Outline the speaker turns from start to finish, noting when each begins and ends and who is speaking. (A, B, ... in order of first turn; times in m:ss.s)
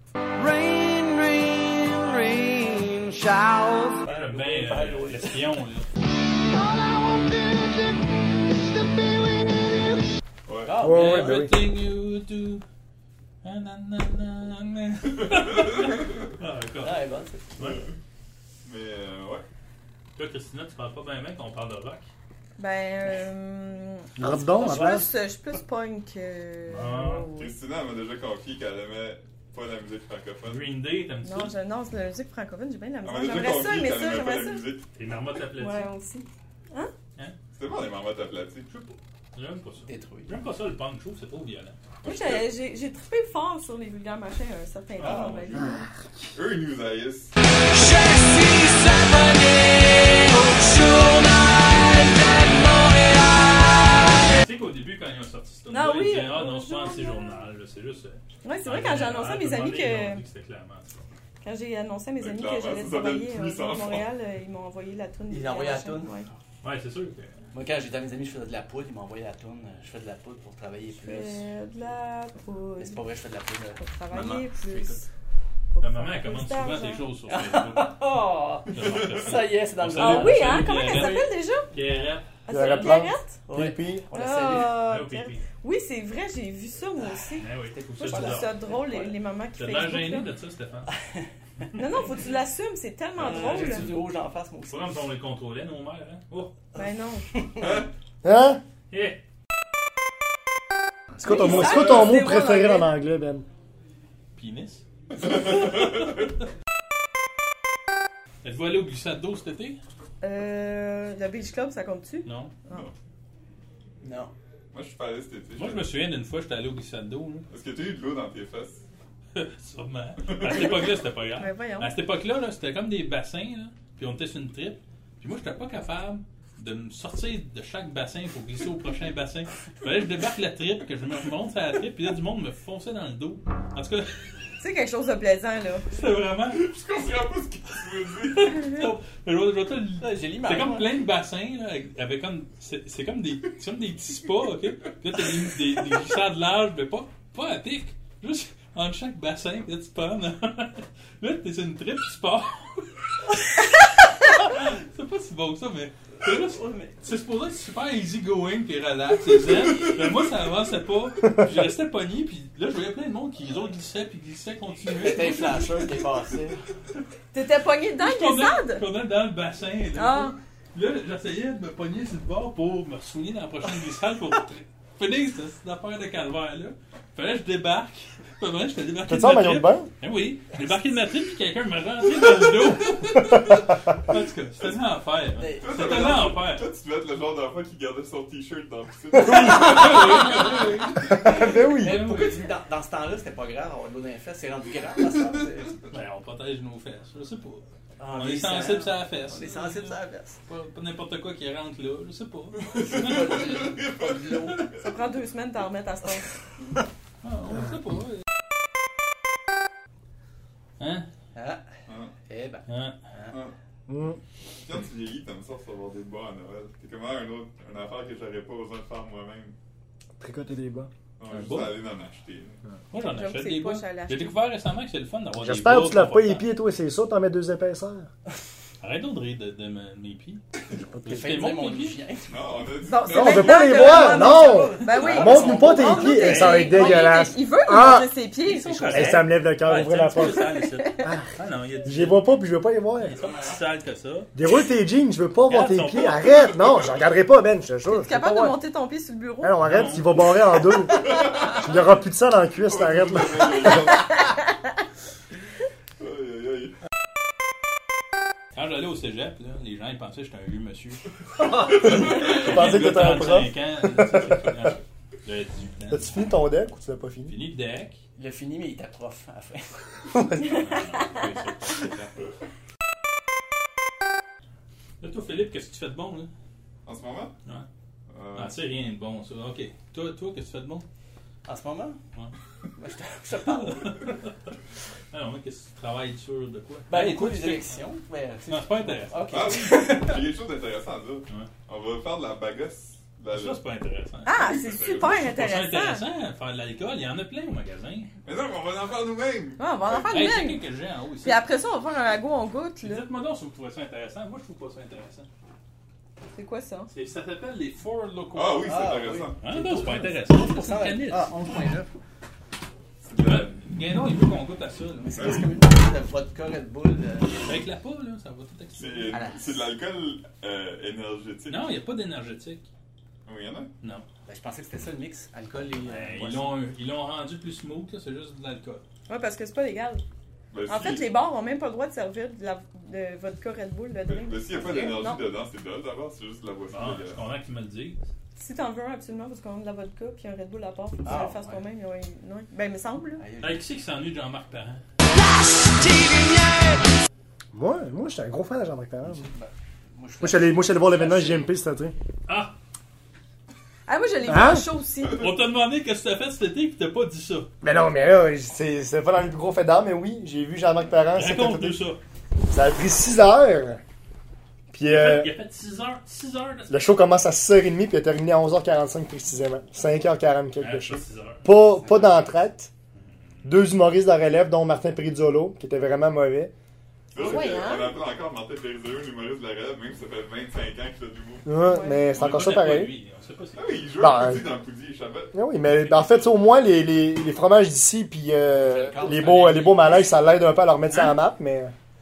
0:00.4-0:04.0 A
0:04.0-0:05.4 B
0:04.0-0:05.9 C
0:06.5-0:10.0 A
0:10.4-0:10.8 D
0:10.6-0:11.5 B
0:10.8-0:11.6 E
0:10.9-0:12.6 C
0:13.4-0:17.0 C
0:15.1-0:16.2 D
0:16.8-0:17.8 B
0:17.6-0:17.8 C
0:18.6-0:19.4 D
0:20.2-0:22.1 C
0:22.6-0:27.5 F
0:24.2-0:25.1 E
0:24.6-0:24.9 B
0:26.7-0:27.3 C
0:27.3-0:30.6 D
0:30.4-0:31.5 C
0:31.2-0:34.6 F
0:33.0-0:34.9 D
0:34.9-0:35.9 C
0:35.6-0:36.9 F
0:37.5-0:38.7 D
0:38.7-0:41.8 C
0:39.9-0:40.3 B
0:42.0-0:42.4 D
0:42.0-0:45.8 F
0:45.0-0:47.3 D
0:47.7-0:54.4 A
0:54.1-1:01.1 C
0:55.7-0:57.4 F
0:58.4-1:00.2 F
1:01.4-1:06.3 F
1:02.2-1:04.1 D
1:05.3-1:06.1 B
1:06.6-1:07.4 C
1:07.5-1:11.5 B
1:10.9-1:13.0 F
1:12.8-1:15.0 B
1:13.8-1:15.0 F
1:15.7-1:17.1 F
1:15.8-1:18.0 C
1:17.3-1:21.2 B
1:18.7-1:22.2 C
1:18.8-1:19.3 D
1:19.9-1:21.7 F
1:22.4-1:23.4 F
1:22.5-1:24.0 E
1:23.5-1:24.8 B
1:24.1-1:27.5 F
1:24.8-1:25.4 C
1:27.4-1:28.6 C
1:27.8-1:29.2 B
1:28.0-1:30.3 F
1:29.6-1:30.9 C
1:31.7-1:33.9 F
1:33.2-1:34.0 C
1:33.2-1:35.0 B
1:34.7-1:36.5 C
1:36.7-1:37.3 F
1:36.7-1:37.8 B
1:37.6-1:37.9 D
1:38.2-1:38.6 E
1:38.9-1:39.2 C
1:41.1-1:43.4 E
1:41.2-1:42.9 F
1:41.3-1:42.2 D
1:44.4-1:45.5 C
1:45.2-1:46.0 D
1:48.4-1:49.8 C
1:50.2-1:52.9 F
1:52.2-1:52.5 C
1:54.0-1:54.3 B
1:54.7-1:55.9 D
1:55.6-1:57.5 C
1:57.5-1:58.8 D
1:59.4-2:14.2 C
2:00.2-2:00.9 D
2:01.4-2:01.9 F
2:14.6-2:15.9 F
2:15.9-2:16.6 C
2:16.5-2:18.8 D
2:18.3-2:33.0 C
2:20.0-2:21.0 B
2:34.2-2:45.9 C
2:36.2-2:37.0 B
2:44.9-2:46.6 B
2:47.3-2:48.8 F
2:47.9-3:06.7 C
2:49.9-2:50.4 F
2:59.0-2:59.9 E
3:03.3-3:03.6 E
3:05.4-3:06.3 B
3:05.6-3:10.6 D
3:09.3-3:12.5 C
3:11.0-3:12.1 E
3:11.4-3:15.8 B
3:15.9-3:23.4 C
3:18.0-3:20.4 B
3:22.6-3:24.9 D
3:22.9-3:24.7 B
3:24.8-3:26.3 F
3:27.2-3:28.1 C
3:30.8-3:31.1 C
3:31.3-3:31.6 B
3:31.9-3:32.1 D
3:32.2-3:33.4 B
3:32.7-3:33.0 C
3:33.9-3:34.2 E
3:34.6-3:39.5 D
3:40.2-3:40.9 E
3:41.2-3:42.6 D
3:41.3-3:41.8 C
3:42.9-3:46.5 C
3:43.0-3:44.4 F
3:45.4-3:48.1 E
3:48.8-3:50.4 C
3:50.7-3:51.1 E
3:51.0-3:52.7 B
3:51.0-3:52.0 C
3:52.3-3:54.1 D
3:52.8-3:59.3 F
3:53.1-3:58.1 E
3:53.9-3:56.7 B
3:56.3-3:57.1 C
3:58.4-4:02.3 C
3:58.9-4:01.3 E
4:00.4-4:01.1 F
4:01.8-4:03.2 E
4:03.0-4:04.3 C
4:03.2-4:03.6 B
4:04.4-4:08.6 E
4:05.5-4:06.3 C
4:07.9-4:09.8 F
4:09.4-4:13.9 E
4:09.6-4:10.3 C
4:11.1-4:11.7 D
4:12.6-4:14.3 D
4:16.0-4:16.7 D
4:18.5-4:21.0 C
4:21.7-4:26.2 C
4:21.8-4:24.5 E
4:25.9-4:27.4 E
4:27.3-4:28.0 C
4:28.2-4:29.8 B
4:30.1-4:30.7 E
4:30.4-4:32.1 C
4:30.5-4:30.8 F
4:35.0-4:36.3 C
4:36.8-4:37.4 D
4:38.1-4:38.6 D
4:38.4-4:40.9 C
4:41.4-4:42.0 B
4:42.8-4:44.1 B
4:43.4-4:44.5 C
4:45.1-4:47.7 C
4:46.9-4:50.3 B
4:48.5-4:49.4 C
4:49.3-4:53.6 D
4:53.3-4:54.4 C
4:54.2-4:56.1 F
4:54.3-4:55.4 D
4:55.1-4:58.1 C
4:58.2-5:00.2 D
4:59.6-5:00.6 F
5:00.1-5:01.4 C
5:01.2-5:03.1 F
5:02.8-5:05.3 C
5:06.4-5:06.9 F
5:06.9-5:08.8 C
5:08.3-5:09.4 D
5:08.6-5:11.9 B
5:09.4-5:11.3 C
5:13.0-5:13.6 D
5:13.2-5:15.4 C
5:15.0-5:17.6 B
5:15.1-5:15.5 D
5:17.4-5:19.2 C
5:18.8-5:21.7 D
5:19.1-5:19.6 B
5:21.5-5:22.6 C
5:23.2-5:23.7 D
5:23.8-5:24.0 C
5:24.2-5:26.5 B
5:25.8-5:28.8 C
5:29.1-5:30.0 F
5:30.5-5:31.1 D
5:30.6-5:35.2 F
5:34.0-5:37.2 D
5:36.7-5:38.0 C
5:38.4-5:43.2 F
5:41.0-5:41.6 B
5:43.2-5:43.6 B
5:43.4-5:44.8 C
5:45.0-5:46.9 A
5:47.5-5:49.3 E
5:49.0-5:51.5 B
5:50.2-5:51.9 E
5:52.3-5:52.5 C
5:53.9-5:55.3 F
5:54.2-5:54.7 E
5:55.1-5:57.5 C
5:57.6-6:01.8 E
6:01.1-6:02.0 C
6:02.5-6:03.8 E
6:04.7-6:05.3 E
6:04.8-6:06.9 C
6:06.7-6:12.7 E
6:10.6-6:11.4 C
6:11.5-6:12.4 B
6:12.9-6:13.6 C
6:13.4-6:16.5 E
6:17.1-6:21.5 D
6:17.2-6:17.5 E
6:17.2-6:18.0 F
6:21.4-6:22.9 E
6:21.6-6:22.1 F
6:22.1-6:23.8 C
6:23.6-6:25.3 D
6:24.0-6:24.5 E
6:25.3-6:31.7 E
6:25.6-6:26.5 C
6:28.6-6:30.3 B
6:29.2-6:29.7 C
6:30.9-6:31.2 C